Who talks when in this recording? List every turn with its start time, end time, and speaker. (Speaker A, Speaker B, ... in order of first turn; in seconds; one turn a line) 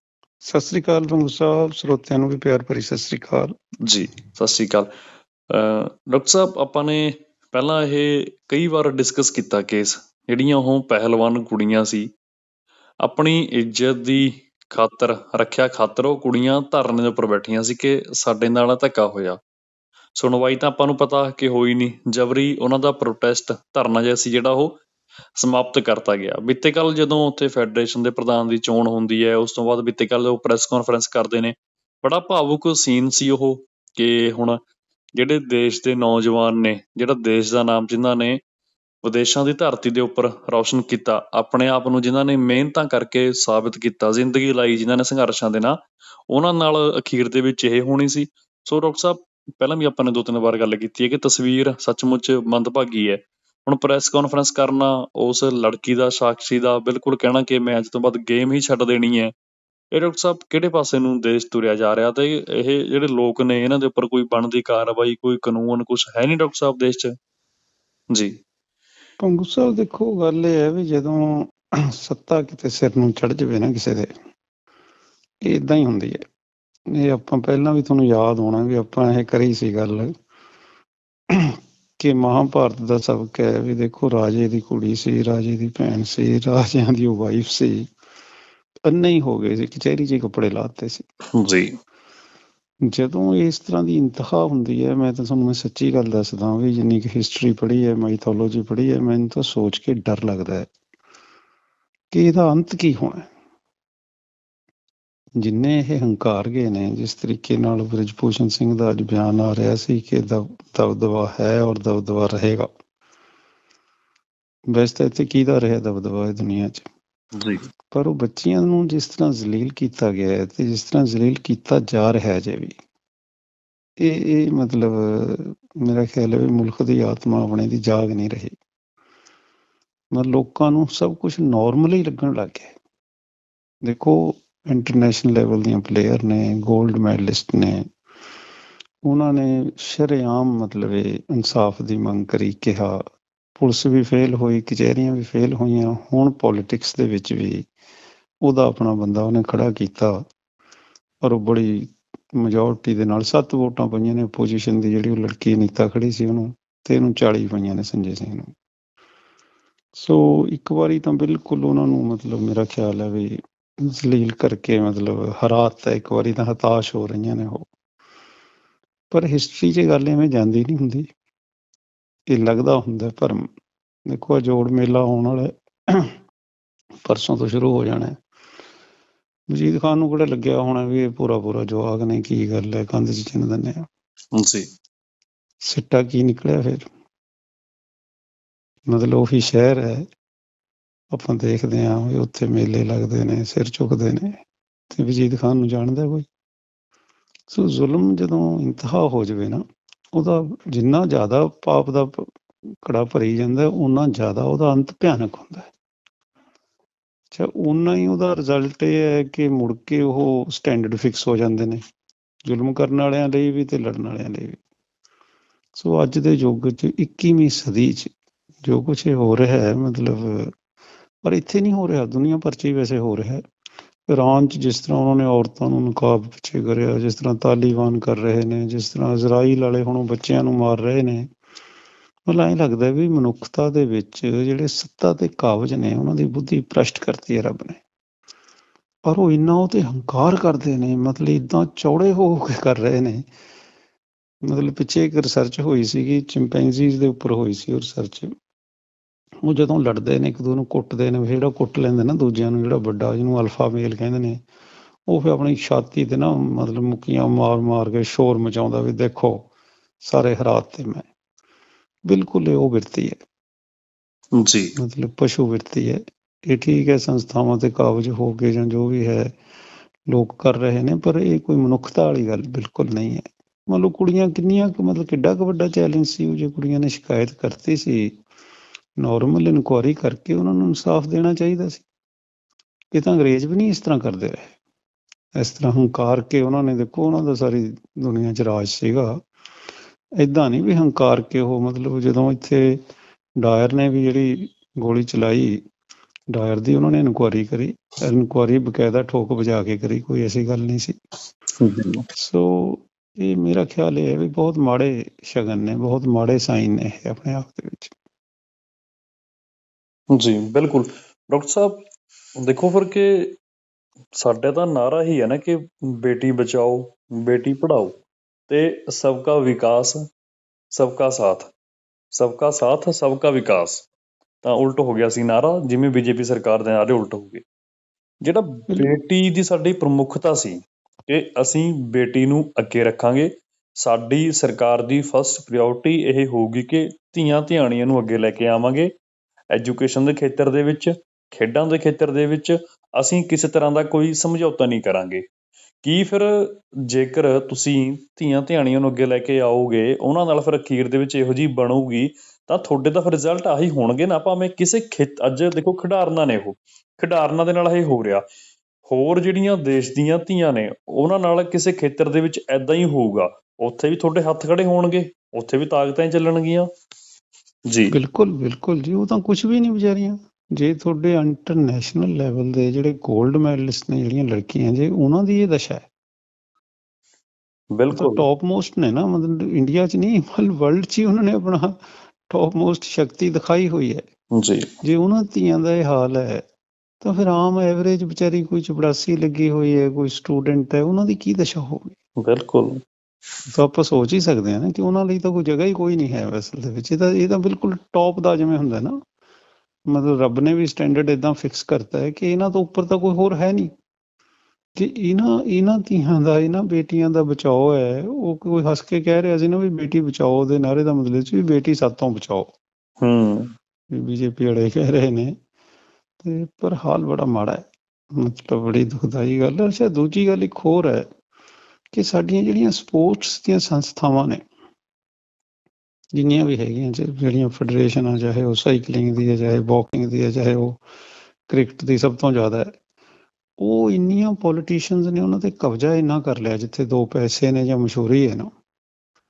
Speaker A: 0.4-3.5
Speaker B: 3.8-4.9
Speaker B: 5.5-12.1
Speaker B: 13.0-19.4
Speaker B: 20.2-24.8
Speaker B: 25.4-34.6
Speaker B: 35.2-38.4
Speaker B: 39.0-45.8
Speaker B: 46.3-59.3
Speaker B: 59.9-67.1
Speaker A: 69.2-74.1
Speaker A: 75.4-76.2
Speaker A: 76.9-80.1
Speaker A: 81.3-87.9
Speaker A: 88.8-91.0
Speaker B: 91.3-91.7
Speaker A: 92.9-100.7
Speaker A: 102.1-103.3
Speaker A: 105.4-112.7
Speaker A: 114.7-116.8
Speaker B: 117.4-117.7
Speaker A: 117.9-122.7
Speaker A: 124.0-128.5
Speaker A: 130.1-132.7
Speaker A: 133.8-137.8
Speaker A: 139.1-143.0
Speaker A: 143.6-147.7
Speaker A: 148.4-150.2
Speaker A: 151.2-158.5
Speaker A: 159.9-167.7
Speaker A: 169.1-171.1
Speaker A: 172.3-173.5
Speaker A: 174.1-176.1
Speaker A: 177.0-178.2
Speaker A: 179.5-183.8
Speaker B: 184.3-184.7
Speaker A: 185.6-186.9
Speaker A: 188.9-190.1
Speaker A: 191.1-194.4
Speaker A: 194.9-196.2
Speaker A: 197.5-202.3
Speaker A: 202.8-205.7
Speaker A: 207.3-211.8
Speaker A: 212.4-214.6
Speaker A: 215.8-218.1
Speaker A: 218.6-220.5
Speaker A: 221.2-223.4
Speaker A: 224.1-231.3
Speaker A: 232.3-237.8
Speaker A: 239.1-243.2
Speaker A: 244.4-248.3
Speaker A: 249.4-254.4
Speaker A: 255.1-259.5
Speaker A: 260.0-261.0
Speaker A: 262.1-263.2
Speaker B: 264.4-264.7
Speaker A: 264.8-269.4
Speaker A: 270.1-278.2
Speaker A: 279.0-281.8
Speaker A: 282.9-284.5
Speaker A: 285.4-289.2
Speaker A: 290.2-292.8
Speaker A: 293.4-295.6
Speaker A: 296.3-300.9
Speaker B: 301.6-302.0
Speaker A: 302.1-307.9
Speaker B: 310.1-311.8
Speaker B: 312.4-313.4
Speaker B: 314.1-320.0
Speaker B: 320.7-321.5
Speaker B: 322.1-323.9
Speaker B: 324.4-327.4
Speaker B: 328.2-338.9
Speaker B: 339.5-345.2
Speaker B: 345.8-358.2
Speaker B: 358.9-366.7
Speaker B: 367.7-367.9
Speaker A: 367.9-375.9
Speaker B: 377.7-378.2
Speaker A: 377.9-381.8
Speaker A: 382.3-384.0
Speaker B: 384.3-384.7
Speaker A: 384.8-386.4
Speaker A: 387.0-391.9
Speaker B: 392.2-392.8
Speaker A: 393.5-399.0
Speaker A: 399.9-403.7
Speaker A: 404.8-412.5
Speaker B: 413.0-413.5
Speaker A: 413.9-415.3
Speaker A: 416.2-421.1
Speaker A: 421.9-424.4
Speaker A: 426.1-430.8
Speaker A: 431.5-432.7
Speaker A: 433.6-438.5